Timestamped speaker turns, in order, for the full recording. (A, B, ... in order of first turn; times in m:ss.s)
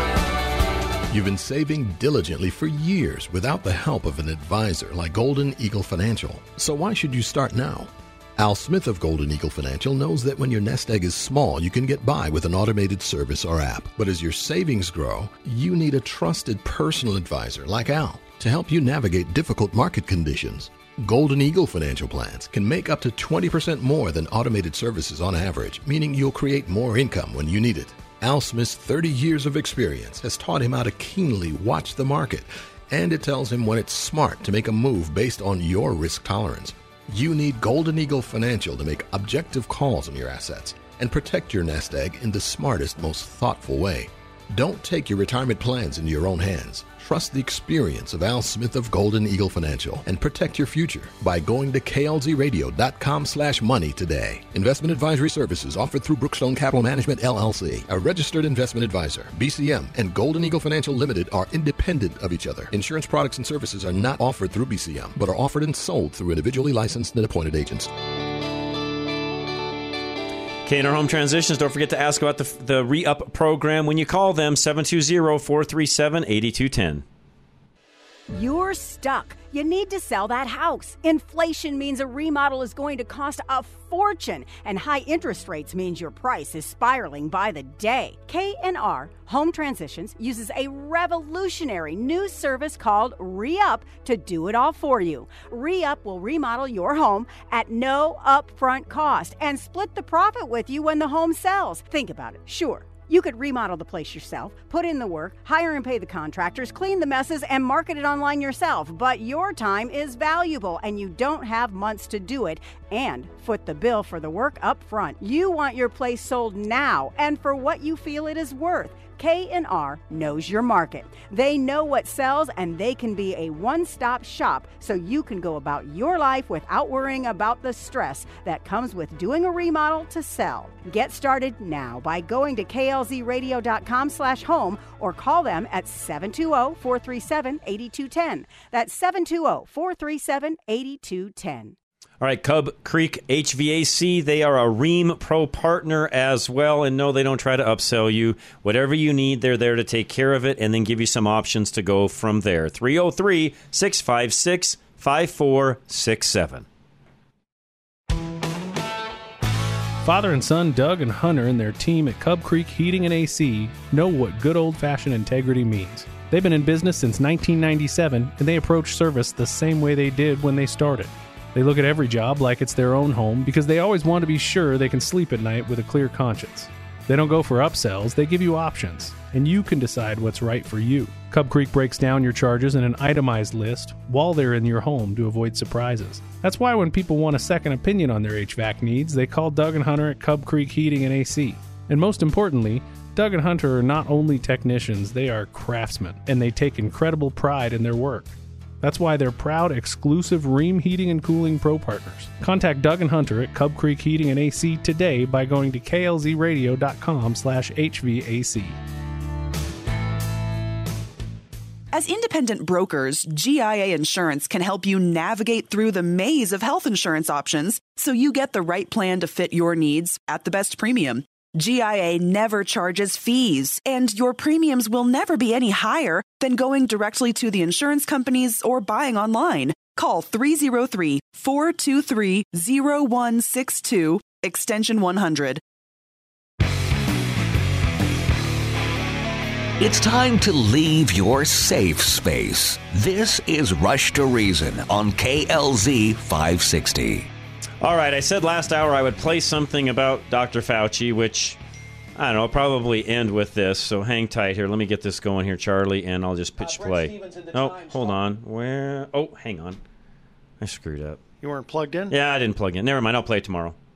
0:01.1-1:07.9 A
1:10.6-1:17.0 B
1:18.3-2:21.7 C
2:22.2-2:36.6 B
2:40.0-3:28.8 D
3:31.9-3:55.6 E
3:59.8-4:07.3 F
4:07.8-4:11.6 B
4:12.2-4:19.8 B
4:16.6-4:18.2 G
4:20.6-4:21.2 B
4:21.4-4:22.1 G
4:22.1-4:23.8 B